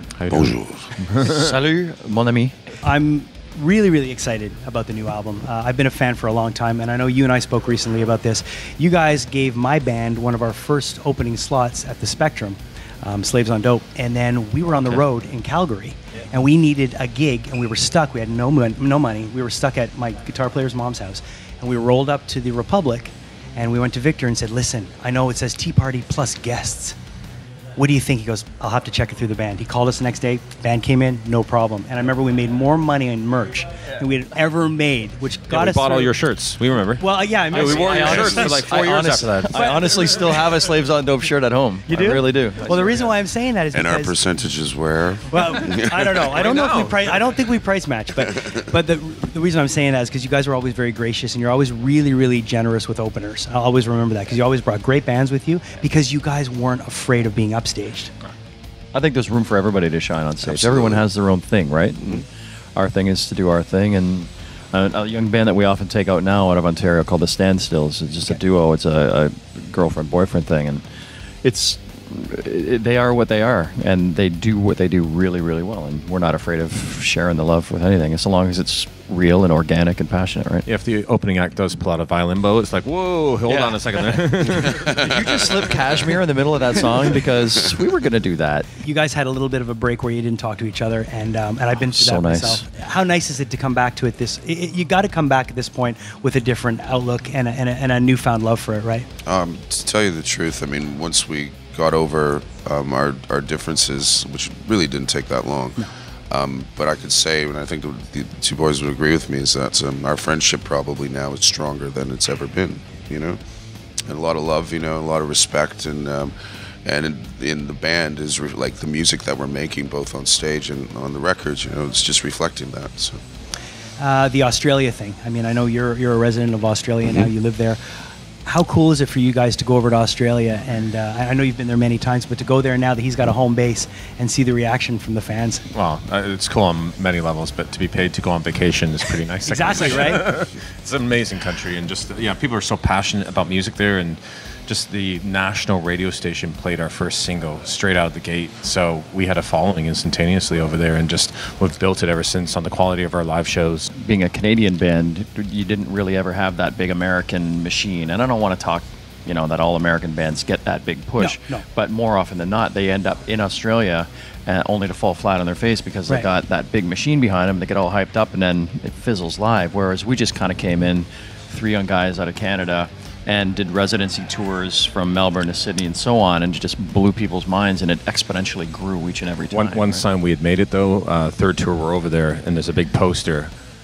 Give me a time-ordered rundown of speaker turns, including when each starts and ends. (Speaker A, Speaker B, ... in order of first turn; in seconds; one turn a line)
Speaker A: 0.2-1.5
Speaker B: 0.3-0.9
Speaker C: 1.1-2.5
Speaker D: 2.8-27.0
Speaker C: 14.7-15.0
Speaker D: 27.8-36.1
Speaker A: 35.5-40.0
Speaker D: 37.0-38.6
Speaker C: 37.5-42.7
Speaker B: 37.9-38.4
Speaker D: 39.5-40.3
Speaker D: 41.9-44.2
Speaker B: 43.7-46.2
Speaker D: 45.3-58.1
Speaker A: 46.3-47.2
Speaker C: 58.9-70.8
Speaker B: 60.4-61.0
Speaker C: 71.4-80.7
Speaker A: 80.7-85.1
Speaker C: 83.5-88.7
Speaker B: 85.1-85.6
Speaker D: 88.8-99.1
Speaker C: 91.8-92.6
Speaker B: 99.2-113.4
Speaker B: 114.0-123.2
Speaker D: 124.0-127.8
Speaker D: 128.4-135.7
Speaker A: 135.7-153.9
Speaker D: 139.4-140.3
Speaker C: 153.9-180.0
Speaker D: 161.2-161.6
Speaker A: 179.5-183.5